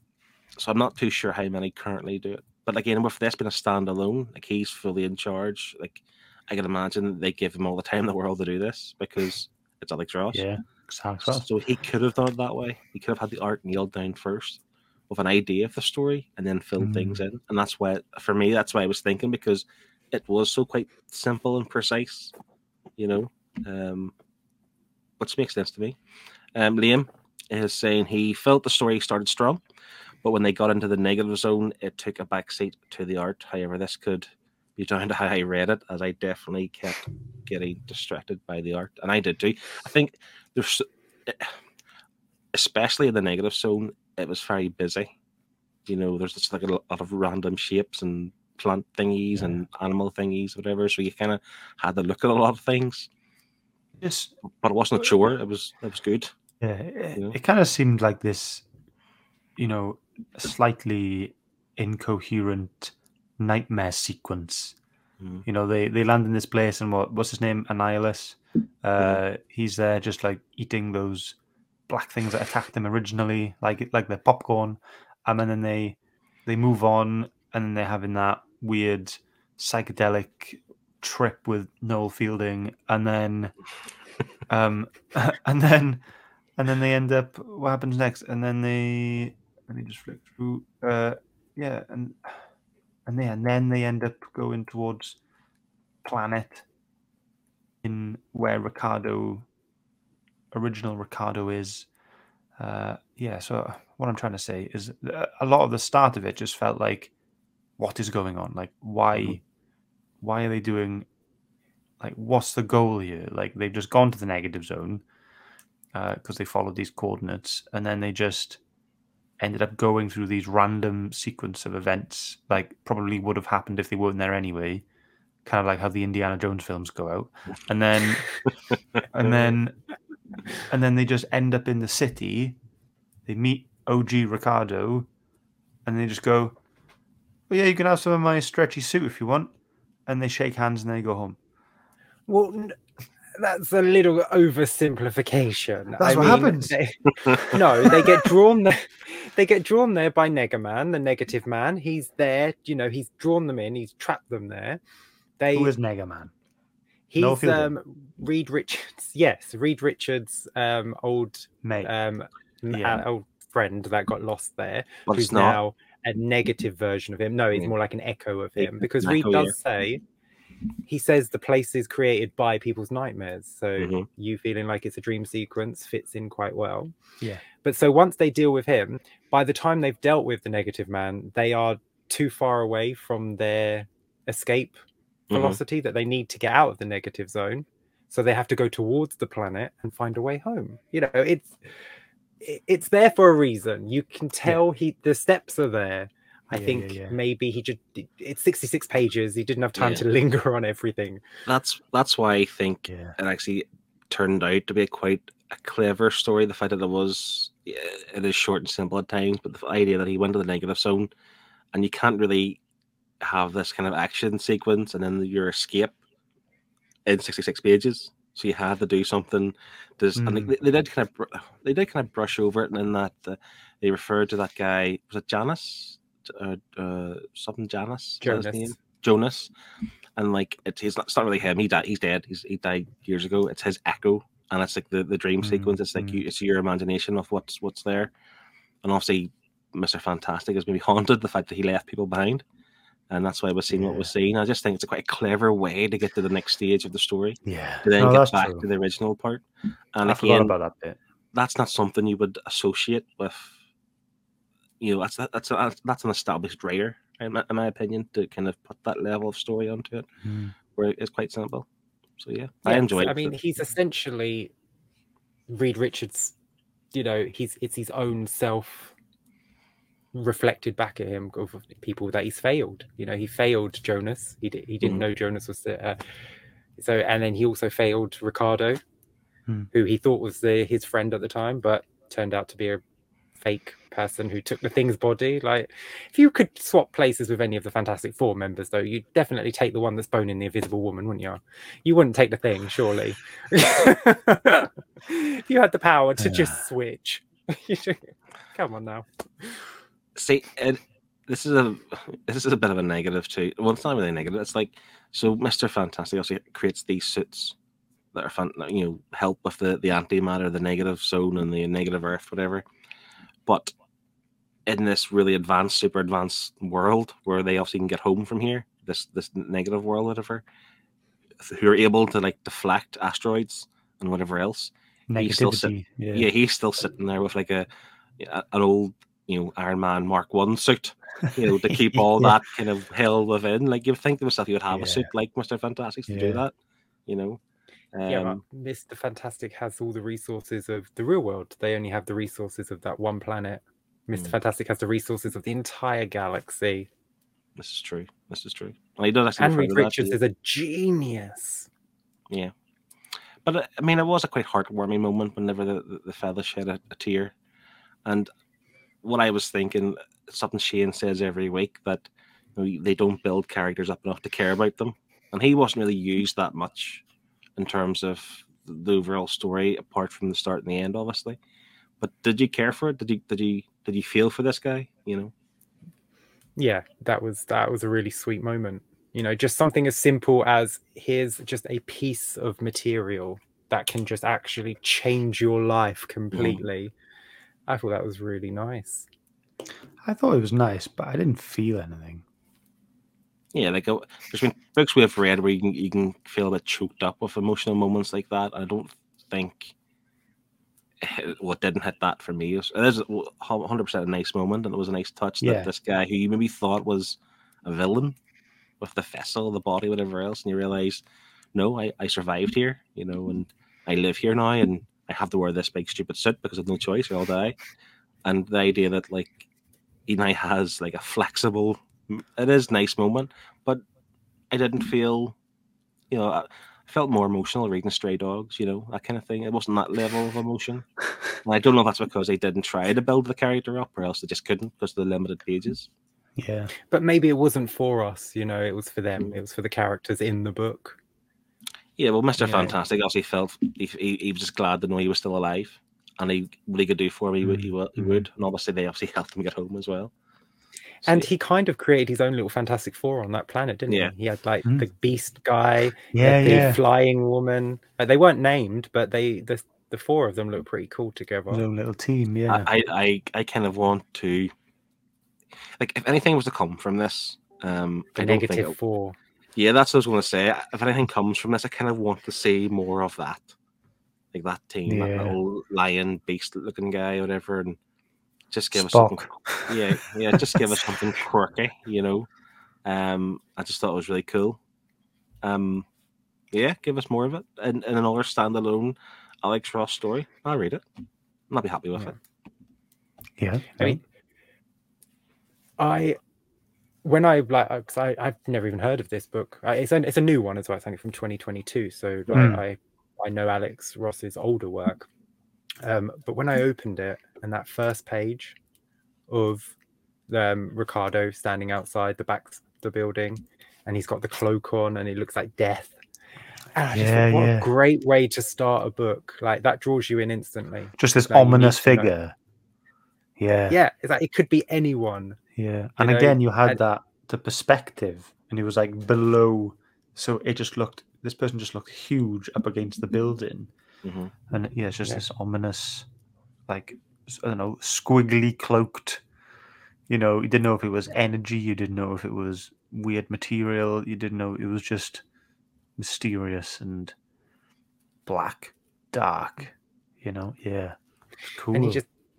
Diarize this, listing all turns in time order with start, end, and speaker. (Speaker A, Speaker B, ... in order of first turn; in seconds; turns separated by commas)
Speaker A: 0.6-10.4, Speaker B: 10.3-11.4, Speaker A: 11.2-22.3, Speaker B: 16.8-17.2, Speaker A: 23.0-24.1, Speaker A: 25.2-26.0, Speaker A: 26.6-29.6, Speaker A: 30.2-41.6, Speaker A: 42.5-45.1, Speaker A: 45.9-53.1, Speaker B: 49.4-49.6, Speaker B: 54.0-54.3, Speaker A: 54.6-56.3, Speaker B: 56.6-58.7, Speaker B: 59.6-64.8, Speaker A: 65.2-65.5, Speaker B: 65.5-71.4, Speaker B: 71.9-83.5, Speaker B: 84.5-86.0, Speaker B: 86.6-92.4, Speaker B: 93.1-95.2, Speaker B: 96.0-96.7, Speaker B: 97.8-99.5, Speaker B: 100.5-101.9, Speaker B: 102.6-107.1, Speaker B: 107.8-109.4, Speaker B: 110.2-111.1, Speaker B: 112.0-115.0, Speaker B: 115.9-118.6, Speaker B: 119.4-124.8, Speaker B: 125.5-128.3, Speaker A: 129.0-129.6, Speaker B: 129.1-129.8, Speaker B: 130.6-132.6, Speaker B: 133.3-135.1, Speaker B: 135.8-136.6, Speaker B: 137.5-139.5, Speaker B: 140.1-141.4, Speaker C: 142.3-142.8, Speaker C: 143.3-154.8, Speaker B: 146.0-146.8, Speaker C: 155.4-155.7, Speaker B: 155.6-156.3, Speaker C: 157.1-170.0, Speaker B: 157.2-157.7, Speaker B: 161.6-161.9, Speaker B: 162.7-163.1, Speaker A: 165.1-165.6, Speaker A: 168.6-169.6, Speaker C: 170.8-176.9, Speaker A: 173.8-174.1, Speaker C: 177.6-184.8, Speaker A: 185.3-185.6, Speaker C: 185.3-191.6, Speaker C: 192.4-201.2, Speaker B: 196.5-197.2, Speaker A: 199.8-200.0, Speaker A: 201.5-211.1, Speaker B: 202.9-203.2, Speaker A: 211.7-212.6, Speaker A: 213.2-215.9, Speaker A: 217.1-229.5, Speaker B: 220.2-220.5, Speaker C: 228.2-228.8, Speaker A: 230.2-238.1, Speaker B: 235.4-236.2, Speaker A: 238.8-242.4, Speaker A: 243.1-250.5, Speaker B: 243.7-244.1, Speaker B: 247.4-248.7, Speaker B: 250.0-251.0, Speaker A: 251.3-253.6, Speaker A: 254.8-260.1, Speaker B: 260.2-260.6, Speaker A: 260.7-261.7, Speaker A: 262.2-263.4, Speaker C: 262.6-264.5, Speaker C: 265.5-266.4, Speaker C: 266.9-268.9, Speaker C: 270.1-276.0, Speaker C: 276.8-278.8, Speaker C: 279.7-282.8, Speaker C: 283.4-299.8, Speaker B: 296.2-296.6, Speaker A: 300.2-307.6, Speaker A: 308.1-312.6, Speaker A: 313.5-313.7, Speaker A: 314.7-320.4, Speaker A: 321.4-327.7, Speaker B: 325.1-326.3, Speaker A: 328.2-336.5, Speaker B: 331.4-332.4, Speaker B: 334.7-335.1, Speaker B: 336.1-336.4, Speaker A: 337.1-337.4, Speaker A: 337.9-338.4, Speaker C: 338.1-346.9, Speaker A: 347.6-350.2, Speaker C: 349.4-351.7, Speaker A: 353.4-357.3, Speaker A: 359.0-367.0, Speaker A: 367.6-371.4, Speaker A: 372.0-375.3, Speaker C: 376.6-386.9, Speaker A: 386.3-386.6, Speaker C: 387.7-389.1, Speaker B: 390.0-392.2, Speaker A: 393.5-399.7, Speaker A: 401.0-408.2, Speaker B: 405.4-405.7, Speaker A: 408.8-411.0, Speaker A: 411.6-417.6, Speaker A: 418.2-419.4, Speaker A: 420.1-423.8, Speaker A: 424.5-425.4, Speaker A: 426.1-430.9, Speaker A: 431.4-435.9, Speaker B: 436.4-436.7, Speaker C: 436.9-441.0, Speaker A: 442.0-450.1, Speaker C: 442.4-442.8, Speaker B: 447.4-448.3, Speaker A: 451.0-451.3, Speaker C: 451.1-461.6, Speaker A: 453.9-454.1, Speaker B: 456.1-456.8, Speaker B: 461.5-462.7, Speaker A: 462.5-464.5, Speaker A: 465.8-468.8, Speaker C: 468.2-469.2, Speaker A: 469.6-473.5, Speaker A: 474.3-477.8, Speaker B: 474.9-475.4, Speaker A: 478.5-482.3, Speaker B: 478.7-481.1, Speaker A: 482.9-484.6, Speaker A: 485.4-485.9, Speaker A: 486.5-490.8, Speaker A: 491.5-492.2, Speaker B: 493.4-494.0, Speaker C: 495.8-496.2, Speaker C: 497.1-505.1, Speaker B: 502.3-502.6, Speaker C: 505.8-508.6, Speaker C: 509.3-509.8, Speaker C: 510.3-516.0, Speaker C: 516.8-522.1, Speaker B: 516.9-517.7, Speaker B: 521.0-522.4, Speaker B: 523.4-523.8, Speaker C: 523.7-525.4, Speaker B: 525.6-533.7, Speaker C: 526.0-526.8, Speaker A: 534.0-534.3, Speaker B: 534.5-536.1, Speaker B: 536.7-539.2, Speaker B: 540.1-545.2, Speaker B: 546.0-547.1, Speaker B: 548.3-551.0, Speaker B: 551.5-552.0, Speaker C: 551.7-552.0